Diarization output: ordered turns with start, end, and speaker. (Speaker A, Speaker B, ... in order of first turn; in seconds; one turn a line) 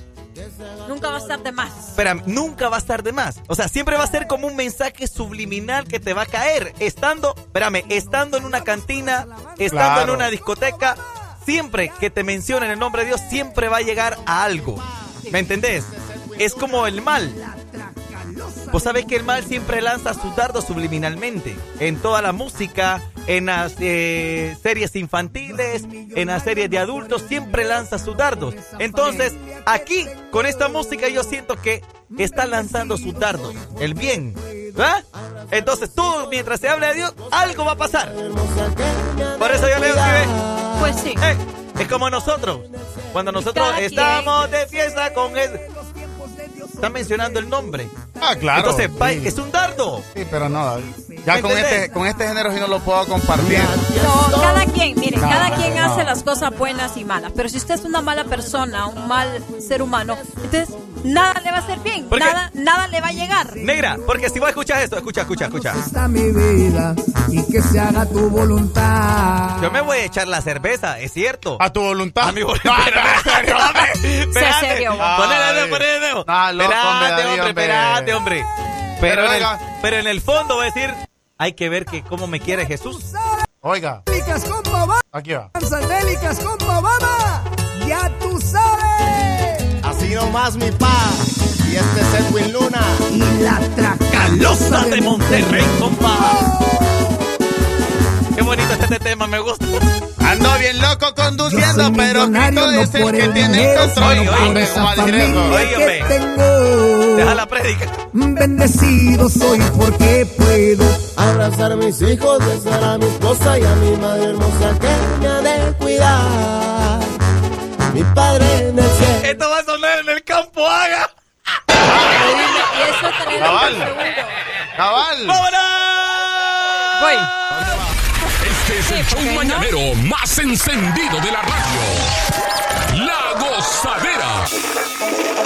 Speaker A: 0.3-1.5
Speaker B: 0.8-1.9
Speaker C: 1.9-17.4
Speaker D: 8.4-9.8
Speaker E: 9.7-10.3
Speaker D: 17.4-19.5
Speaker C: 18.7-38.1
Speaker D: 25.4-30.9
Speaker D: 32.1-34.9
Speaker A: 35.2-41.0
Speaker C: 39.4-40.3
Speaker B: 40.8-41.2
Speaker C: 41.2-45.6
Speaker A: 42.8-43.3
Speaker B: 43.4-44.3
Speaker D: 45.6-47.6
Speaker C: 46.8-47.9
Speaker E: 48.2-49.3
Speaker C: 48.5-50.0
Speaker E: 50.1-53.8
Speaker D: 50.3-52.6
Speaker C: 51.3-51.9
Speaker A: 53.3-55.9
Speaker B: 54.0-63.6
Speaker E: 55.2-56.2
Speaker A: 59.5-61.0
Speaker C: 62.1-62.4
Speaker D: 63.6-64.1
Speaker C: 63.6-65.8
Speaker D: 65.5-69.6
Speaker C: 69.6-71.6
Speaker E: 71.6-74.0
Speaker C: 72.2-78.5
Speaker B: 74.3-75.1
Speaker E: 74.9-78.2
Speaker C: 79.0-83.0
Speaker E: 79.0-79.6
Speaker D: 82.5-83.4
Speaker E: 83.6-84.0
Speaker D: 84.1-85.0
Speaker E: 85.1-85.5
Speaker D: 85.5-89.6
Speaker A: 89.8-93.0
Speaker D: 93.1-96.0
Speaker C: 94.1-96.5
Speaker C: 98.3-99.8
Speaker E: 100.2-105.7
Speaker D: 101.4-107.4
Speaker C: 103.8-104.8
Speaker C: 105.5-106.1
Speaker C: 107.1-108.0
Speaker D: 108.1-111.0
Speaker A: 111.2-117.1
Speaker A: 117.9-119.3
Speaker C: 119.2-121.1
Speaker E: 121.8-122.6
Speaker B: 122.1-124.4
Speaker E: 123.4-123.9
Speaker E: 124.8-125.4
Speaker C: 125.2-126.5
Speaker B: 126.9-127.3
Speaker E: 127.5-127.8
Speaker F: 128.4-132.1
Speaker B: 128.8-129.7
Speaker F: 132.9-134.5